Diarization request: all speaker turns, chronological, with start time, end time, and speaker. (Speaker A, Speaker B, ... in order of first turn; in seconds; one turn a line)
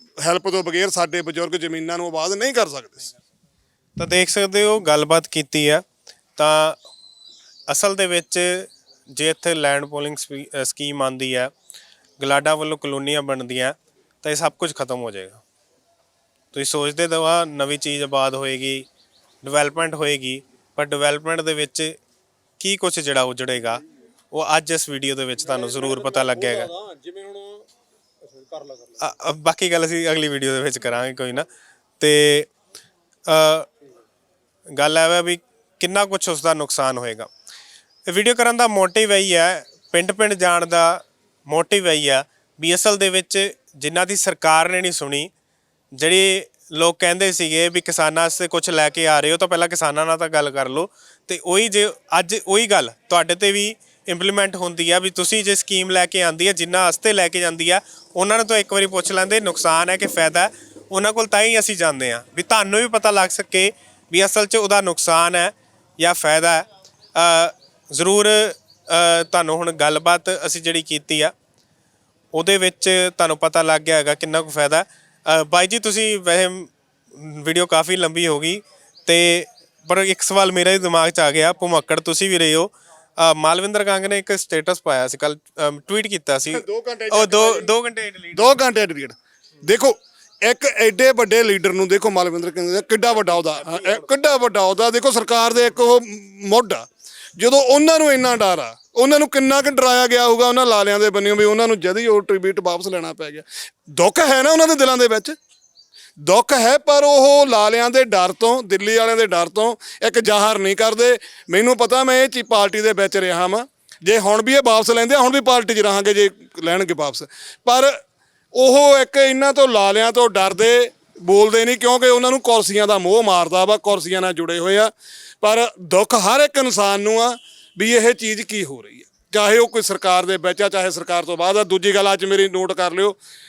Speaker A: 0.2-3.1
Speaker B: 4.0-5.8
Speaker B: 6.4-6.8
Speaker B: 7.7-11.5
Speaker B: 12.2-15.4
Speaker B: 16.5-18.9
Speaker B: 19.4-22.0
Speaker B: 22.6-26.7
Speaker C: 25.4-27.7
Speaker C: 28.3-29.0
Speaker B: 29.0-31.5
Speaker B: 32.0-32.5
Speaker B: 33.3-33.7
Speaker B: 34.7-37.3
Speaker B: 38.1-45.3
Speaker B: 45.9-71.3
Speaker B: 72.3-88.6
Speaker A: 86.5-87.7
Speaker A: 88.3-96.8
Speaker B: 93.3-94.1
Speaker A: 97.4-105.4
Speaker A: 106.2-118.0
Speaker A: 118.5-133.2